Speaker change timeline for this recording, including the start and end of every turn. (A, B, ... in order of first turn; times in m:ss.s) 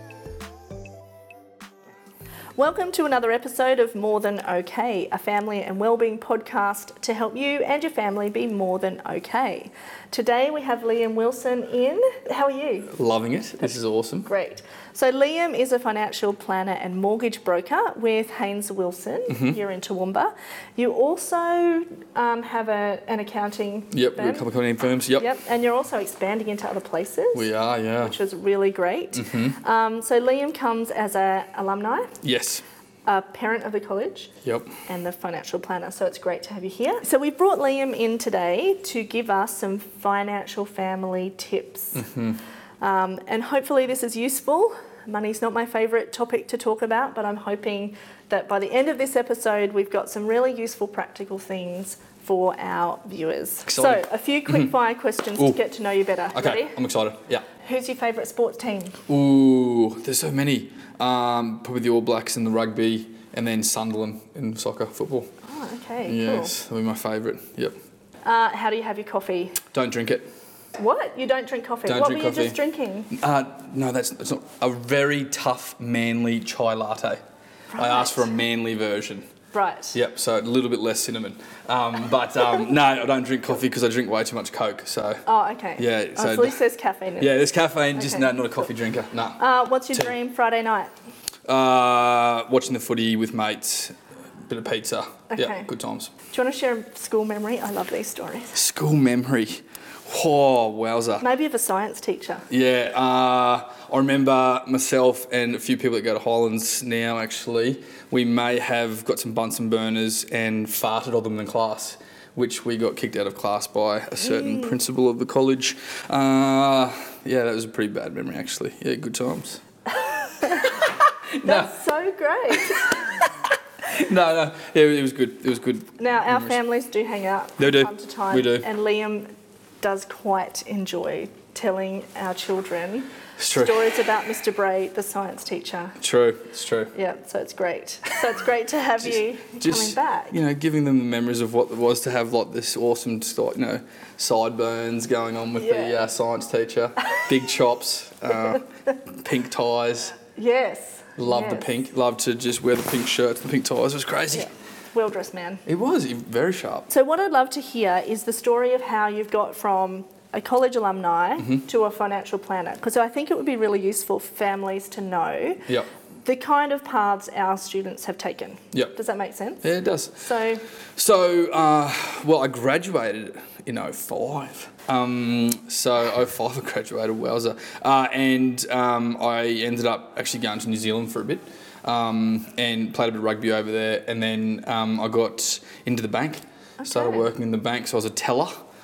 0:02.6-0:12.9 A
0:12.9-0:14.3 B
0:13.6-0:24.5 A
0:19.3-0:19.6 B
0:23.9-0:25.2 B
0:25.2-0:27.5 A
0:27.3-0:28.1 B
0:28.0-0:32.2 A
0:29.1-0:29.6 B
0:32.2-0:32.6 B
0:33.0-0:34.3 A
0:34.9-0:42.0 A
0:41.9-0:42.4 B
0:42.8-0:56.7 A
0:53.7-0:54.7 B
0:56.3-0:57.4 B
0:57.6-0:59.0 A
0:59.1-1:05.3 B
1:05.4-1:06.5 A
1:06.0-1:07.7 B
1:08.2-1:09.6 A
1:09.7-1:10.2 B
1:10.8-1:13.1 A
1:11.8-1:12.6 B
1:13.1-1:17.2 B
1:17.7-1:18.2 A
1:17.8-1:19.2 B
1:19.5-1:20.0 A
1:19.9-1:25.2 B
1:25.2-1:27.4 A
1:25.8-1:26.6 B
1:27.2-1:29.4 B
1:27.9-1:28.7 A
1:29.4-1:30.9 A
1:31.4-1:33.9 B
1:34.5-1:36.1 B
1:35.3-1:35.7 A
1:36.3-1:38.6 A
1:38.5-1:41.2 B
1:41.2-1:42.4 A
1:42.5-1:59.6 B
1:54.3-1:54.7 A
2:00.0-2:00.8 A
2:00.5-2:01.7 B
2:01.4-2:03.1 A
2:02.7-2:03.3 B
2:03.8-2:06.5 B
2:06.0-2:09.3 A
2:07.6-2:08.6 B
2:09.8-2:16.0 A
2:13.4-2:14.0 B
2:16.0-2:16.9 B
2:16.9-2:20.3 A
2:19.0-2:30.2 B
2:25.6-2:26.0 A
2:30.3-2:31.6 A
2:31.2-2:34.5 B
2:34.3-2:35.6 A
2:35.6-2:36.9 B
2:36.9-2:45.7 A
2:46.2-2:50.6 A
2:49.6-2:50.2 B
2:51.0-3:08.5 B
3:06.8-3:07.2 A